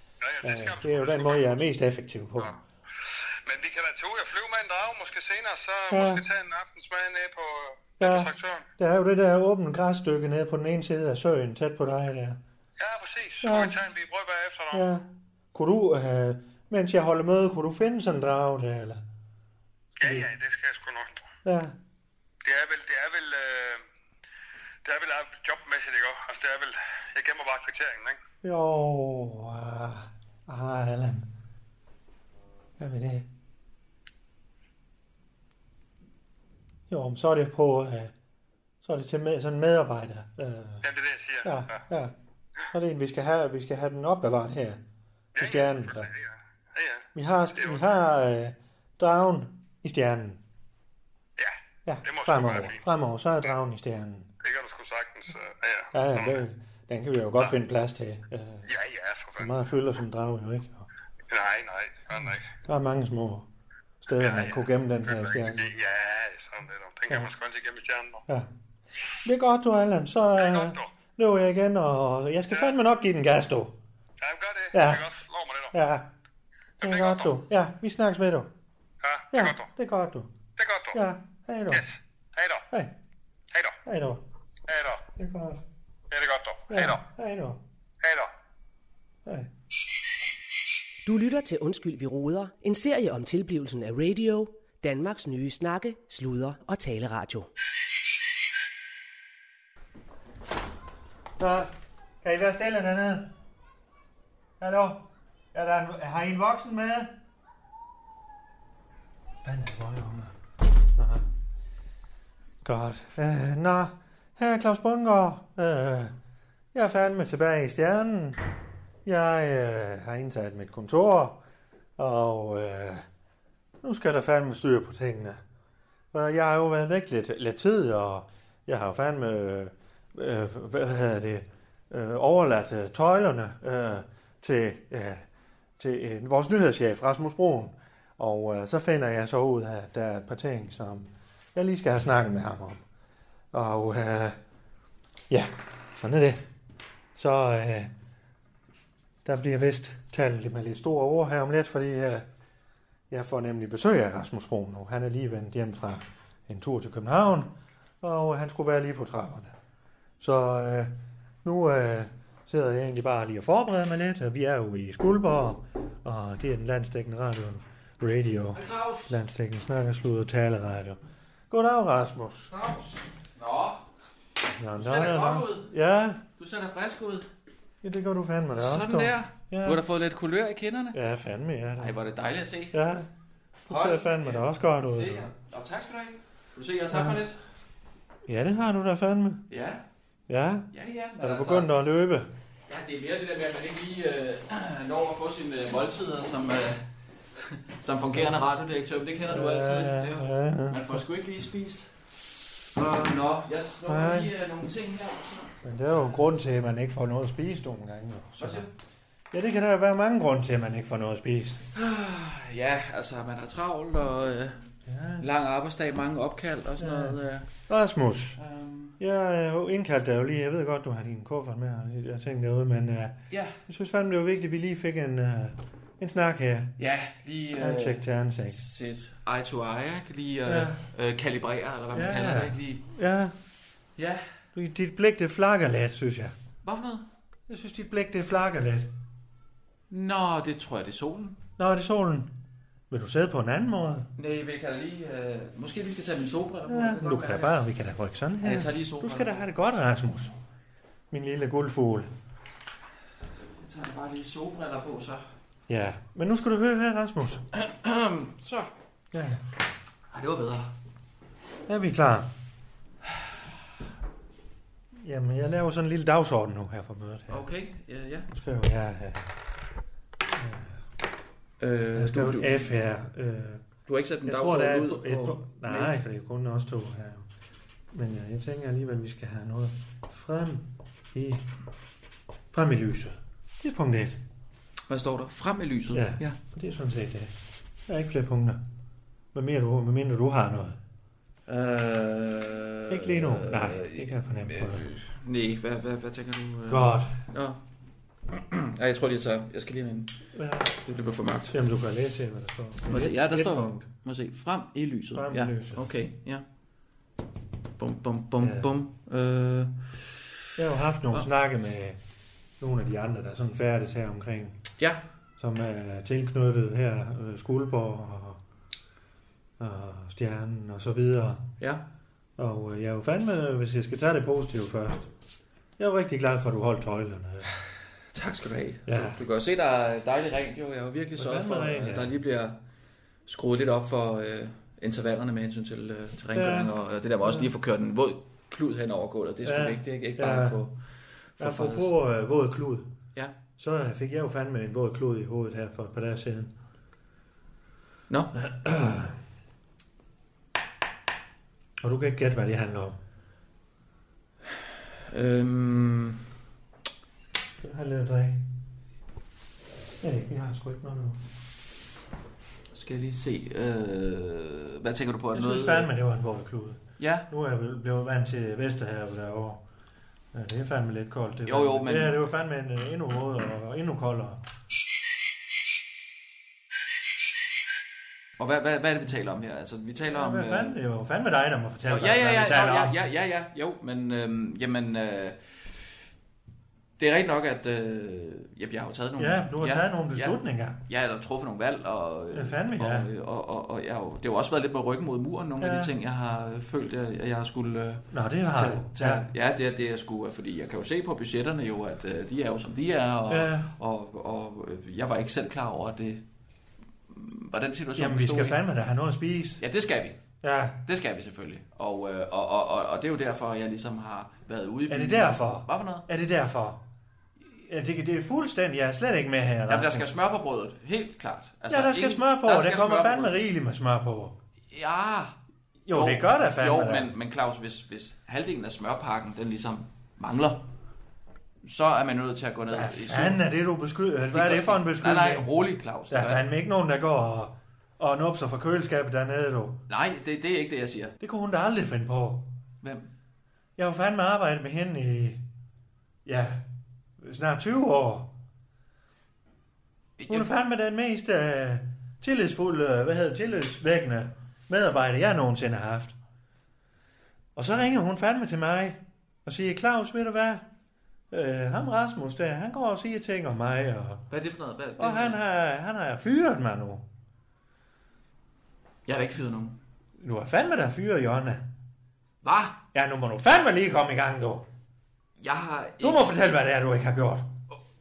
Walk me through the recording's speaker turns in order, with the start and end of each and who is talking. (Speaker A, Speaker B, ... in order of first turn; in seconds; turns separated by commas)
Speaker A: 0.2-1.5, Speaker B: 0.4-2.5, Speaker A: 2.4-8.7, Speaker B: 5.9-6.2, Speaker B: 8.0-12.4, Speaker A: 12.8-14.8, Speaker B: 13.4-13.8, Speaker B: 14.7-19.0, Speaker A: 20.0-21.2, Speaker B: 20.0-20.3, Speaker B: 21.4-21.8, Speaker A: 22.4-23.8, Speaker A: 24.8-28.2, Speaker B: 28.4-31.3, Speaker B: 32.8-33.3, Speaker B: 36.9-38.1, Speaker B: 38.8-40.8, Speaker A: 40.8-41.8, Speaker B: 41.4-42.1, Speaker B: 42.7-44.8, Speaker A: 45.4-47.8, Speaker B: 45.4-46.1, Speaker B: 47.1-50.4, Speaker A: 51.4-52.8, Speaker B: 51.9-54.3, Speaker A: 54.4-56.4, Speaker B: 55.9-58.7, Speaker A: 58.7-59.5, Speaker B: 59.4-60.9, Speaker A: 61.3-62.5, Speaker B: 62.7-63.5, Speaker B: 64.0-65.7, Speaker A: 64.2-68.2, Speaker B: 69.2-73.8, Speaker A: 70.4-70.9, Speaker A: 74.2-75.8, Speaker B: 74.7-75.0, Speaker B: 75.7-76.1, Speaker A: 76.8-77.4, Speaker B: 76.8-78.5, Speaker A: 79.0-79.7, Speaker B: 79.3-80.3, Speaker A: 80.6-81.0, Speaker B: 80.9-81.8, Speaker A: 81.7-82.7, Speaker A: 83.5-83.8, Speaker B: 83.8-84.2, Speaker A: 84.7-85.0, Speaker B: 85.2-85.6, Speaker A: 86.1-87.0, Speaker B: 86.7-87.6, Speaker A: 88.0-88.3, Speaker C: 91.0-97.5, Speaker B: 101.4-103.3, Speaker B: 104.6-107.2, Speaker B: 109.4-110.3, Speaker B: 111.0-111.3, Speaker B: 112.6-116.1, Speaker B: 116.7-118.5, Speaker B: 119.0-121.4, Speaker B: 122.0-123.1, Speaker B: 123.8-125.4, Speaker B: 126.1-135.2, Speaker B: 135.8-142.8, Speaker B: 143.5-144.4, Speaker B: 145.3-146.4, Speaker B: 147.2-147.9, Speaker B: 149.2-152.3, Speaker B: 153.1-157.5, Speaker B: 158.0-159.5, Speaker B: 160.2-160.9, Speaker B: 161.4-171.0, Speaker D: 168.5-169.2, Speaker B: 171.5-172.5, Speaker D: 172.5-173.8, Speaker B: 174.6-176.2, Speaker D: 174.8-175.7, Speaker D: 176.4-177.3, Speaker B: 177.8-179.8, Speaker D: 178.6-181.0, Speaker B: 180.9-182.0, Speaker D: 181.8-182.8, Speaker B: 182.7-183.1, Speaker B: 183.7-185.3, Speaker D: 183.7-187.4, Speaker B: 188.3-189.5, Speaker D: 189.5-189.8, Speaker B: 190.3-192.3, Speaker D: 190.7-191.7, Speaker D: 192.7-196.9, Speaker D: 197.4-202.1, Speaker B: 199.3-201.0, Speaker D: 202.7-205.6, Speaker B: 203.8-204.3, Speaker B: 205.6-208.7, Speaker D: 208.4-208.7, Speaker B: 209.3-211.6, Speaker D: 211.8-214.6, Speaker B: 214.9-215.3, Speaker D: 215.2-217.5, Speaker B: 216.8-218.4, Speaker D: 218.4-219.0, Speaker B: 219.0-223.2, Speaker D: 223.3-223.6, Speaker B: 223.7-226.8, Speaker D: 226.8-232.8, Speaker B: 227.6-228.6, Speaker B: 230.5-230.8, Speaker B: 231.9-233.3, Speaker D: 234.0-234.2, Speaker B: 234.6-236.3, Speaker D: 236.6-237.1, Speaker B: 237.5-238.9, Speaker D: 239.9-241.4, Speaker B: 241.6-242.3, Speaker B: 242.9-244.1, Speaker D: 244.2-247.6, Speaker B: 246.7-250.3, Speaker D: 248.4-249.4, Speaker B: 251.1-252.1, Speaker D: 253.6-255.2, Speaker B: 255.7-257.4, Speaker D: 257.5-258.7, Speaker B: 259.1-259.4, Speaker D: 260.1-260.7, Speaker B: 261.7-262.3, Speaker B: 265.0-267.4, Speaker D: 267.3-268.3, Speaker B: 268.3-269.3, Speaker B: 270.3-270.8, Speaker D: 271.6-272.8, Speaker B: 271.9-273.6, Speaker D: 273.9-276.0, Speaker B: 274.2-277.3, Speaker B: 277.9-281.5, Speaker B: 282.5-284.2, Speaker D: 284.9-286.4, Speaker B: 285.9-287.3, Speaker B: 287.9-288.6, Speaker B: 289.3-290.8, Speaker D: 291.5-297.6, Speaker B: 292.9-294.9, Speaker B: 296.7-297.2, Speaker D: 298.3-301.6, Speaker B: 300.3-300.8, Speaker B: 301.5-303.9, Speaker D: 302.9-306.4, Speaker B: 305.1-305.9, Speaker D: 307.8-310.1, Speaker B: 308.4-308.7, Speaker B: 310.6-312.0, Speaker B: 312.6-314.6, Speaker B: 315.4-318.4, Speaker B: 319.6-321.5, Speaker B: 322.4-325.1, Speaker B: 325.8-327.5, Speaker D: 328.1-332.6, Speaker B: 328.9-329.2, Speaker B: 331.2-332.1, Speaker D: 333.3-340.8, Speaker B: 336.3-336.7, Speaker B: 339.4-340.6, Speaker D: 341.4-341.9, Speaker B: 341.4-342.9, Speaker B: 343.6-346.5, Speaker B: 348.4-349.2, Speaker B: 351.8-353.0, Speaker D: 355.1-356.2, Speaker B: 357.6-358.4, Speaker B: 360.0-361.2, Speaker D: 362.7-365.9, Speaker B: 365.3-369.6, Speaker D: 367.0-367.3, Speaker B: 370.3-374.4, Speaker D: 371.5-372.2, Speaker D: 378.4-380.8, Speaker B: 380.1-383.0, Speaker D: 381.9-385.6, Speaker D: 387.0-406.2, Speaker B: 389.2-390.8, Speaker B: 392.3-393.1, Speaker B: 395.6-395.9, Speaker B: 398.1-399.2, Speaker B: 403.3-403.7, Speaker D: 407.1-408.6, Speaker B: 408.0-409.6, Speaker D: 409.6-410.2, Speaker B: 410.4-410.8, Speaker D: 410.9-416.1, Speaker B: 414.9-416.8, Speaker B: 417.7-420.1, Speaker D: 419.7-423.4, Speaker B: 421.7-424.4, Speaker D: 424.7-425.4, Speaker B: 425.9-427.1, Speaker D: 425.9-430.6, Speaker D: 431.6-433.4, Speaker B: 432.7-435.5, Speaker D: 434.3-436.4, Speaker B: 436.1-439.8, Speaker D: 439.9-441.1, Speaker B: 441.2-442.5, Speaker D: 442.8-443.1, Speaker B: 443.8-445.4, Speaker B: 446.2-446.6, Speaker B: 447.2-448.3, Speaker D: 450.2-450.5, Speaker B: 450.3-456.1, Speaker B: 457.6-460.6, Speaker B: 461.3-464.2, Speaker D: 464.3-465.4, Speaker B: 465.0-467.1, Speaker D: 469.1-469.8, Speaker B: 470.2-471.6, Speaker D: 472.4-472.8, Speaker B: 472.9-474.7, Speaker D: 475.4-476.4, Speaker B: 476.0-477.5